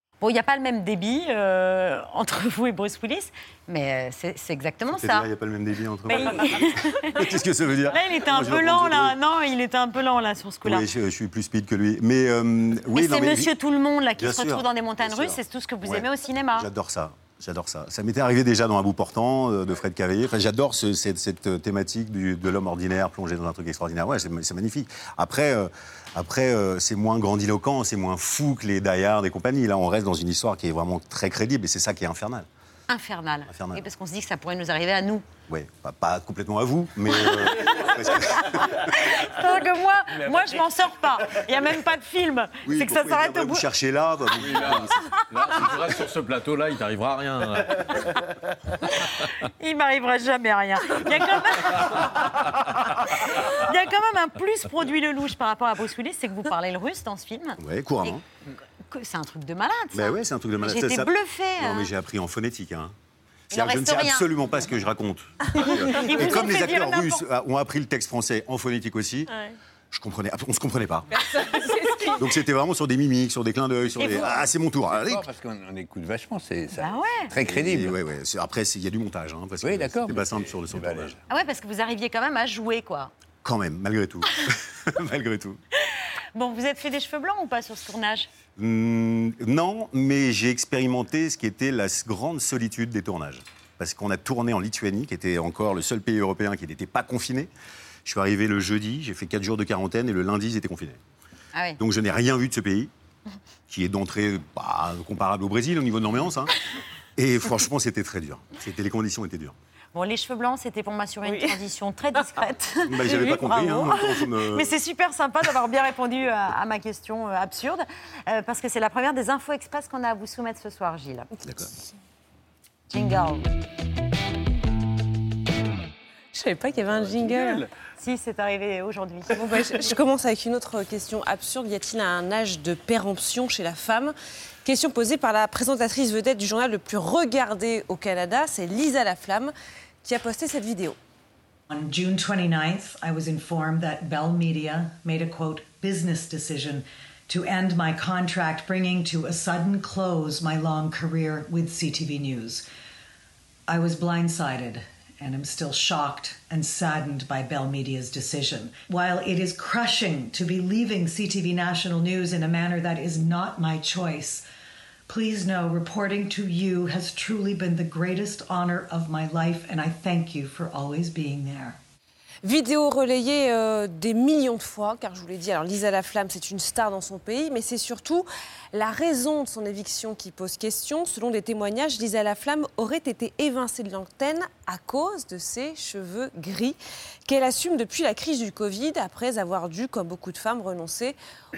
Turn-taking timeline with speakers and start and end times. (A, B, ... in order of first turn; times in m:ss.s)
0:00.2-0:05.3 A
0:04.9-0:09.2 B
0:06.1-0:07.3 A
0:07.9-0:10.9 A
0:10.6-0:13.5 B
0:12.9-0:16.7 A
0:14.2-0:32.5 B
0:32.9-0:35.2 A
0:33.5-0:33.8 B
0:35.5-0:38.9 B
0:38.9-0:43.6 A
0:42.6-0:45.0 B
0:44.4-0:47.8 C
0:49.6-0:52.2 A
0:53.0-0:58.2 A
0:57.6-0:58.2 B
0:58.8-1:01.9 A
0:59.9-1:03.0 B
1:03.5-1:09.3 B
1:03.5-1:04.3 A
1:05.6-1:07.2 A
1:09.9-1:11.1 B
1:11.2-1:12.3 D
1:12.2-1:15.3 B
1:13.9-1:14.3 E
1:14.9-1:18.0 E
1:16.8-1:17.3 A
1:17.4-1:21.2 B
1:19.6-1:21.2 E
1:21.3-1:23.1 A
1:23.4-1:25.6 B
1:26.4-1:28.3 A
1:28.6-1:37.5 B
1:38.0-1:41.0 B
1:41.5-1:41.8 A
1:41.8-1:42.9 B
1:43.7-1:46.5 B
1:47.2-1:49.6 B
1:49.9-2:01.3 A
1:51.2-1:51.6 D
1:52.9-1:54.8 B
2:02.9-2:03.5 A
2:06.3-2:07.7 D
2:08.0-2:09.4 A
2:09.3-2:14.1 D
2:14.6-2:19.5 D
2:20.0-2:21.0 D
2:21.7-2:32.6 F
2:33.7-2:44.4 F
2:45.1-2:51.8 F
2:52.4-3:11.2 D